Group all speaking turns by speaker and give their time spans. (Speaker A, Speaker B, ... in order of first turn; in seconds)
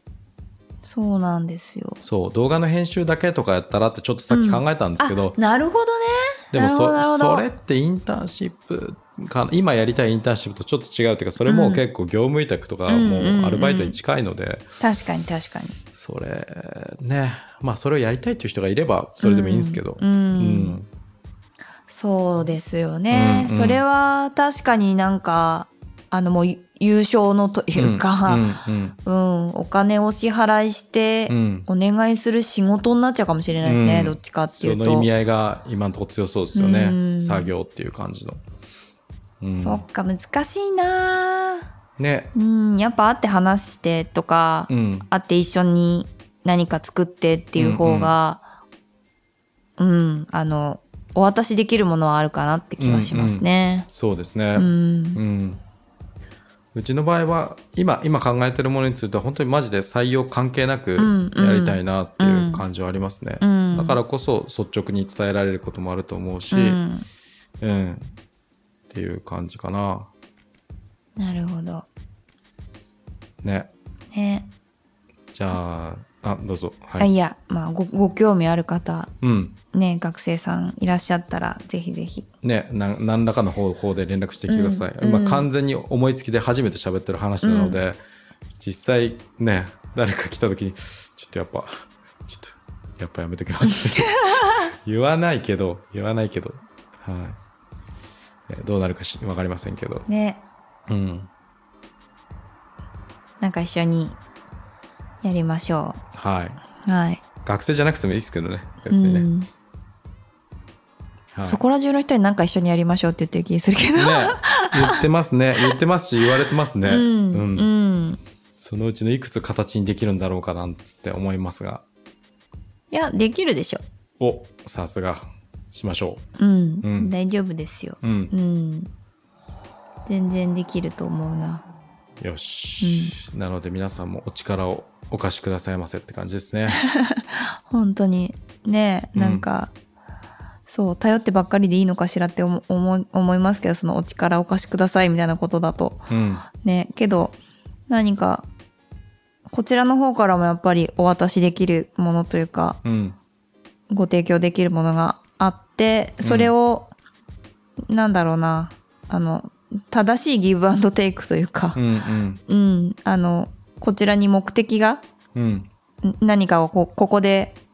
Speaker A: 0.8-2.0, 4.3-7.5, 11.4-11.8, 12.9-14.0, 14.8-15.8, 19.2-20.8, 21.9-28.5, 29.0-35.1, 36.5-37.5, 39.6-41.7, 42.3-48.4, 49.8-53.9, 54.6-55.2, 61.0-62.6, 63.4-64.0, 66.5-67.1, 71.2-71.9, 74.1-74.5, 77.0-79.1, 79.7-82.3, 84.5-85.5, 87.4-87.8, 93.7-94.7, 100.1-100.4, 103.4-104.2, 105.2-106.0, 106.8-107.2, 108.9-109.5, 111.4-115.0, 116.8-118.2, 122.9-123.8, 126.4-128.9, 130.1-131.7, 132.8-133.2, 136.7-139.7, 140.7-147.4, 147.9-148.5, 149.5-152.8, 153.9-156.9, 157.9-161.8, 162.5-165.0, 166.0-167.6
Speaker B: 2.0-5.4, 6.5-14.7, 15.9-20.9, 23.1-23.8, 27.8-29.0, 31.3-31.7, 33.6-38.4, 39.4-39.9, 42.0-42.3, 44.7-45.1, 47.6-48.1, 52.8-55.6, 56.7-66.8, 67.6-68.1, 68.9-70.1, 73.4-73.7, 75.3-77.1, 79.2-79.6, 82.4-88.0, 88.6-97.4, 98.5-100.1, 100.9-101.3, 106.1-106.6, 107.4-109.3, 111.3-111.6, 113.9-117.7, 118.6-121.8, 124.2-126.2, 126.8-127.1, 128.0-128.3, 132.2-136.8, 139.2-139.5, 146.1-146.5, 152.8-153.2, 156.2-156.5, 161.8-162.4, 165.3-165.7